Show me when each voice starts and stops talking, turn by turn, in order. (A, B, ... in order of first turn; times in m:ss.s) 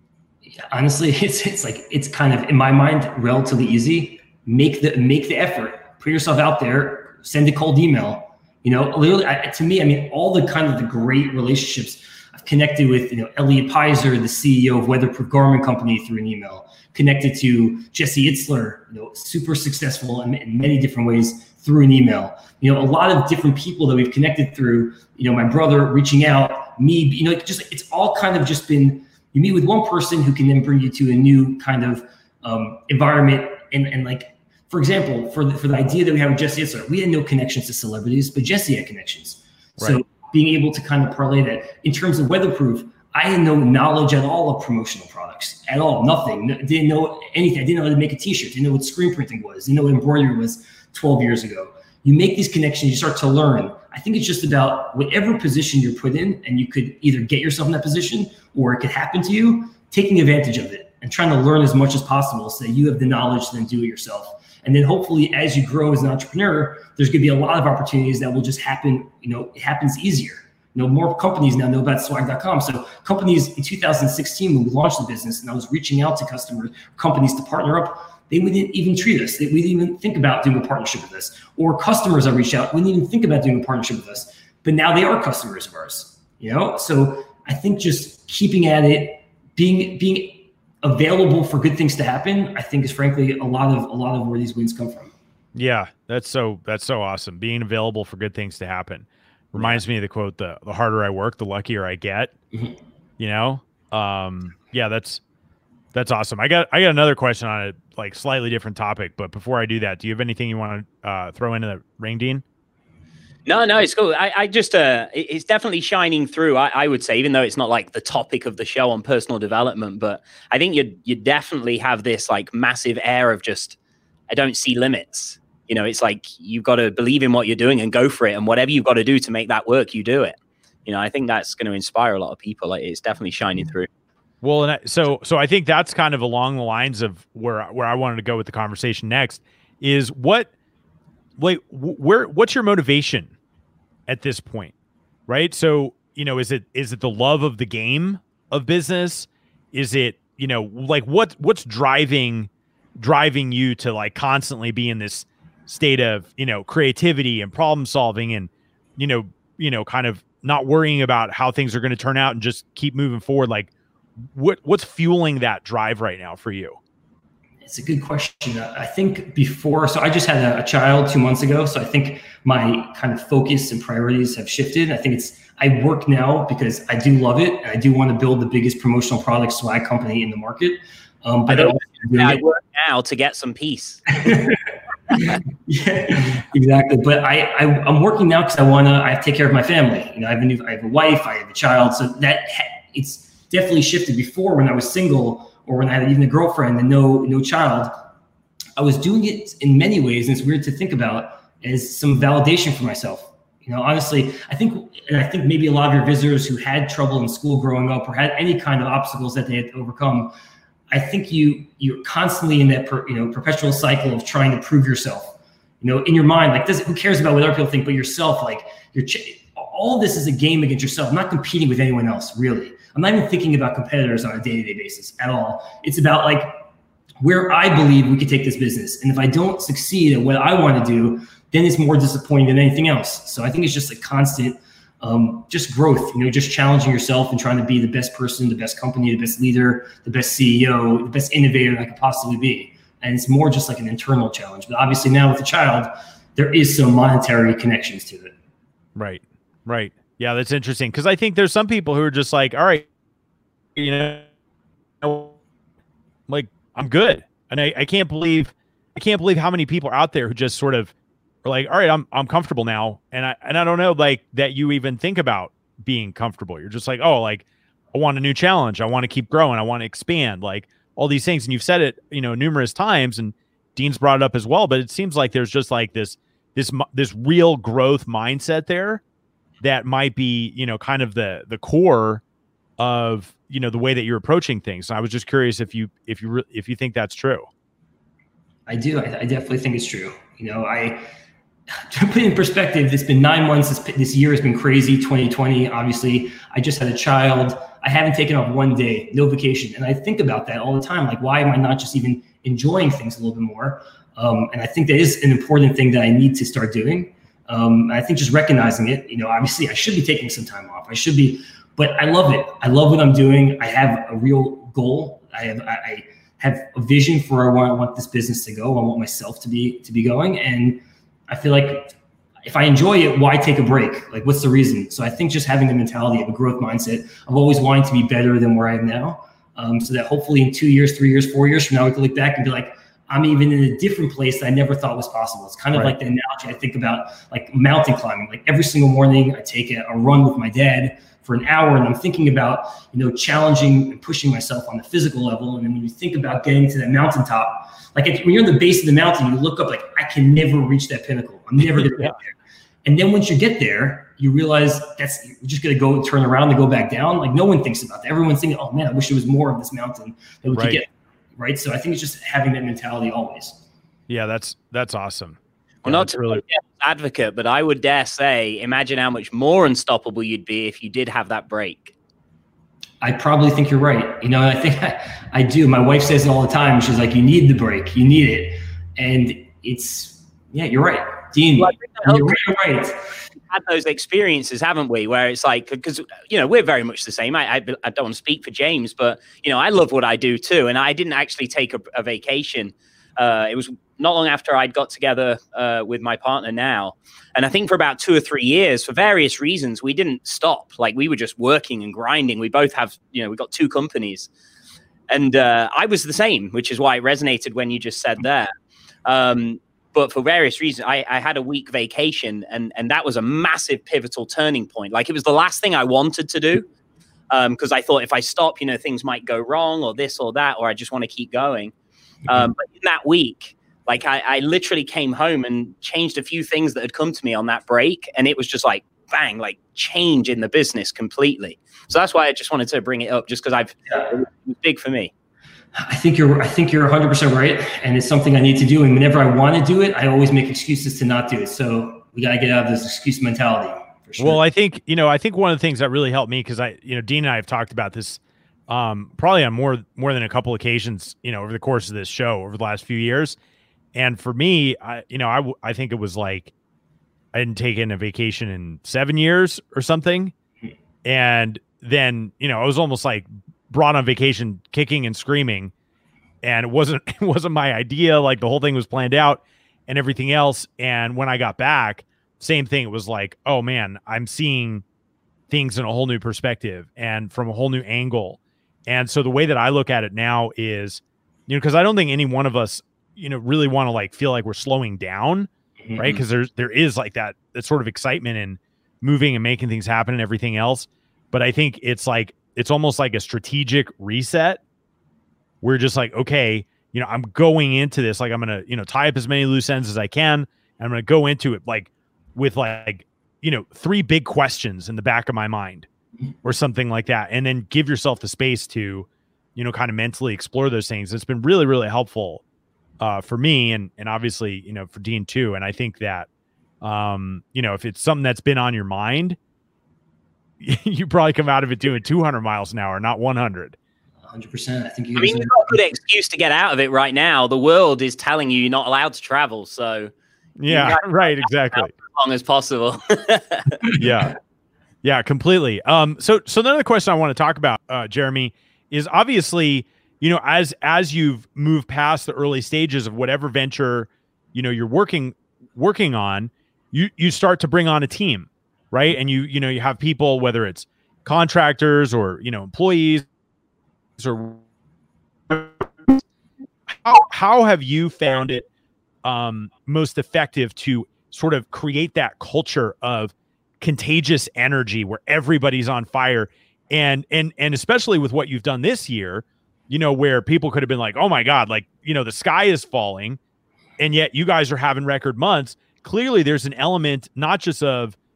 0:00.5-1:35.1 A
1:35.5-1:42.3 B
1:39.5-1:39.8 A
1:43.2-1:45.2 B
1:45.9-1:52.4 B
1:53.4-2:03.8 C
2:04.3-2:13.9 C
2:14.4-2:20.5 B
2:21.4-2:23.3 B
2:24.1-2:24.7 B
2:25.3-2:43.7 B
2:44.3-2:46.8 B
2:47.6-3:02.4 A
3:01.5-3:04.4 C
3:04.2-3:17.9 A
3:05.1-3:05.4 C
3:18.8-3:30.3 A
3:30.9-3:46.5 A
3:47.2-4:08.3 A
4:09.0-4:12.8 B
4:13.8-4:14.3 B
4:15.0-4:15.3 B
4:16.3-4:39.0 B
4:39.6-4:42.2 B
4:42.8-4:47.5 B
4:48.7-4:51.0 A
4:51.7-5:52.3 A
5:51.7-5:52.2 B
5:52.8-6:03.6 A
6:00.5-6:00.8 B
6:04.1-6:06.4 B
6:05.8-6:11.9 C
6:13.0-6:23.0 A
6:21.6-6:22.4 C
6:23.5-6:44.3 C
6:45.1-6:48.5 C
6:49.0-6:56.6 C
6:57.3-7:01.7 C
7:02.3-7:15.1 C
7:15.7-7:24.4 A
7:24.2-7:33.4 B
7:33.9-7:36.5 B
7:37.3-7:40.3 B
7:41.0-7:45.7 B
7:46.4-7:54.8 B
7:55.5-8:14.6 B
8:05.8-8:06.2 A
8:15.6-8:25.9 B
8:26.4-8:32.4 B
8:33.0-8:36.3 B
8:36.8-8:39.4 B
8:40.6-8:43.8 B
8:44.2-8:45.8 A
8:45.2-8:50.1 C
8:50.6-8:51.9 B
8:50.7-8:53.9 C
8:53.9-8:54.4 B
8:55.0-9:13.2 B
9:14.2-9:14.6 B
9:15.5-9:16.2 B
9:16.9-9:18.6 B
9:19.2-9:33.4 B
9:34.0-9:38.2 B